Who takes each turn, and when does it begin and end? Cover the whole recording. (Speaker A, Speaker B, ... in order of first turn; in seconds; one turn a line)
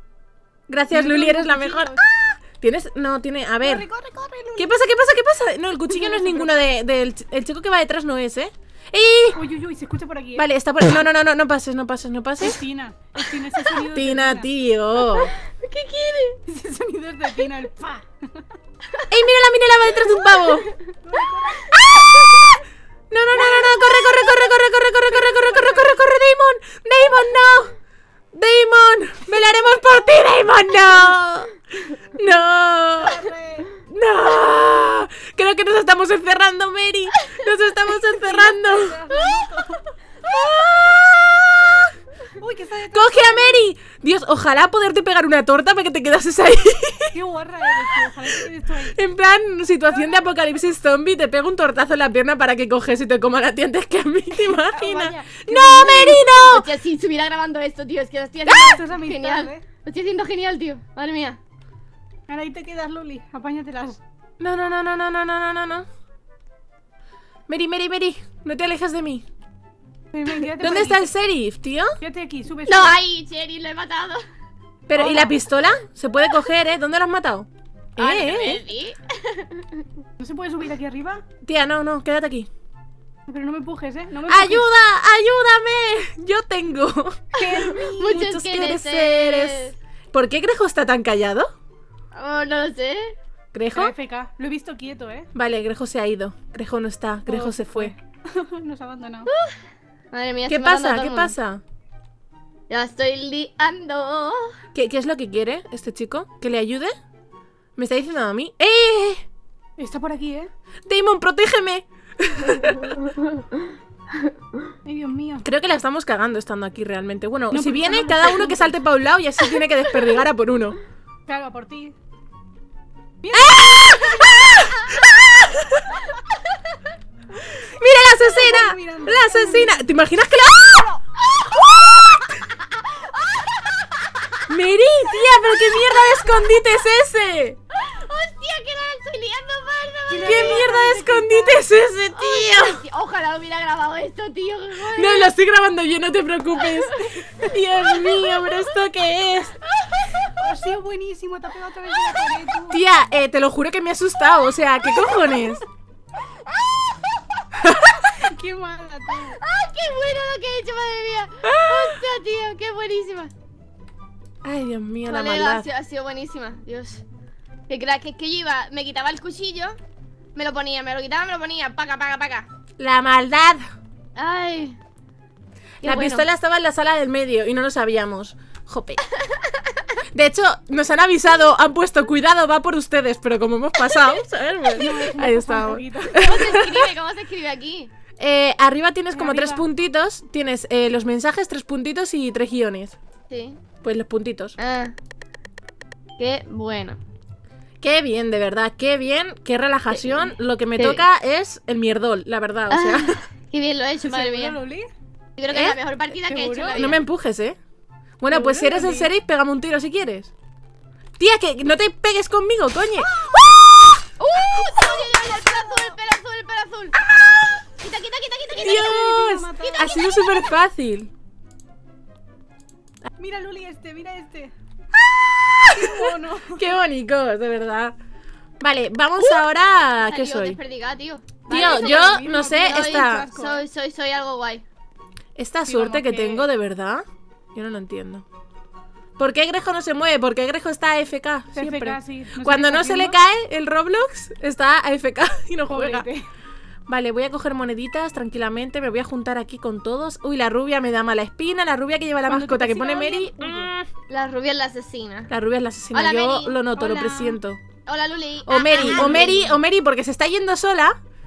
Speaker A: 0.7-2.0
Speaker B: 0.9-2.0
Speaker A: 2.6-3.9
Speaker B: 3.6-4.8
Speaker A: 4.6-9.4
Speaker B: 5.9-6.5
Speaker B: 9.3-10.5
Speaker A: 10.4-12.6
Speaker B: 12.4-14.5
Speaker A: 13.9-15.3
Speaker C: 15.2-16.4
Speaker B: 16.5-18.5
Speaker A: 19.1-20.7
Speaker C: 20.3-20.9
Speaker B: 21.0-21.8
Speaker C: 21.7-22.6
Speaker A: 23.1-27.7
Speaker C: 23.4-24.5
Speaker B: 25.3-25.9
Speaker A: 28.3-33.2
Speaker B: 33.0-33.7
Speaker A: 33.9-39.0
Speaker B: 38.3-39.9
Speaker C: 39.1-39.5
Speaker A: 40.2-41.9
Speaker B: 42.3-43.7
Speaker A: 42.9-47.2
Speaker B: 47.1-49.0
Speaker A: 48.9-56.7
Speaker B: 54.5-56.4
Speaker C: 56.5-61.4
Speaker B: 58.5-59.7
Speaker B: 62.3-64.0
Speaker A: 64.4-65.9
Speaker A: 67.5-69.2
Speaker B: 70.1-71.1
Speaker A: 70.6-72.0
Speaker B: 72.0-73.0
Speaker C: 72.7-74.3
Speaker A: 74.9-78.6
Speaker B: 74.9-75.4
Speaker C: 78.0-79.8
Speaker B: 80.2-81.2
Speaker A: 81.4-82.5
Speaker B: 83.3-84.7
Speaker A: 84.3-87.5
Speaker B: 87.3-88.3
Speaker C: 87.5-89.8
Speaker A: 88.0-91.5
Speaker C: 92.1-93.2
Speaker A: 93.5-93.9
Speaker B: 93.7-95.3
Speaker A: 95.3-97.9
Speaker B: 97.3-99.3
Speaker C: 99.3-99.6
Speaker C: 100.1-101.3
Speaker A: 100.5-101.6
Speaker C: 102.7-104.5
Speaker A: 104.7-106.9
Speaker A: 107.8-109.2
Speaker B: 109.8-110.5
Speaker A: 110.9-113.0
Speaker B: 114.8-115.5
Speaker A: 115.4-120.8
Speaker B: 117.5-118.7
Speaker B: 121.3-122.0
Speaker B: 123.2-124.4
Speaker A: 123.3-126.1
Speaker A: 127.4-131.0
Speaker B: 128.1-129.9
Speaker C: 131.3-132.2
Speaker A: 131.8-132.3
Speaker C: 132.8-134.4
Speaker A: 134.5-137.6
Speaker C: 135.2-136.5
Speaker C: 137.7-140.7
Speaker B: 140.1-141.6
Speaker A: 140.2-142.8
Speaker C: 142.1-145.3
Speaker A: 144.9-149.6
Speaker C: 146.6-148.6
Speaker B: 150.3-152.8
Speaker A: 152.7-155.6
Speaker A: 157.6-158.1
Speaker B: 158.1-159.4
Speaker C: 159.4-163.3
Speaker A: 161.4-162.0
Speaker A: 164.4-165.7
Speaker C: 165.1-167.0
Speaker C: 167.7-169.8
Speaker C: 170.3-172.5
Speaker A: 172.8-173.6
Speaker C: 174.2-174.8
Speaker C: 175.8-176.3
Speaker A: 175.8-179.0
Speaker A: 180.1-186.8
Speaker B: 184.7-186.3
Speaker C: 186.2-187.9
Speaker A: 188.2-193.0
Speaker B: 189.1-189.7
Speaker C: 193.3-193.6
Speaker A: 193.8-194.6
Speaker C: 194.6-194.9
Speaker C: 196.2-197.0
Speaker A: 197.8-203.2
Speaker C: 199.9-201.1
Speaker C: 202.7-204.6
Speaker B: 204.0-204.9
Speaker C: 205.4-207.0
Speaker A: 205.5-205.8
Speaker B: 206.2-206.9
Speaker A: 206.7-207.6
Speaker A: 208.2-210.3
Speaker B: 208.3-209.1
Speaker A: 211.2-213.2
Speaker C: 213.4-217.0
Speaker C: 217.6-220.6
Speaker A: 218.6-221.1
Speaker B: 218.6-220.1
Speaker B: 223.2-224.5
Speaker A: 225.3-227.9
Speaker B: 225.7-226.8
Speaker A: 228.6-230.6
Speaker C: 230.0-234.6
Speaker B: 231.4-233.7
Speaker A: 231.5-233.3
Speaker A: 235.4-238.2
Speaker B: 235.7-236.5
Speaker A: 239.2-246.1
Speaker B: 241.5-243.2
Speaker B: 245.7-246.3
Speaker A: 246.9-253.9
Speaker B: 252.3-253.7
Speaker C: 254.1-255.3
Speaker A: 255.3-257.6
Speaker C: 255.9-256.7
Speaker B: 256.7-257.4
Speaker C: 257.9-259.6
Speaker A: 258.5-261.0
Speaker B: 258.7-259.4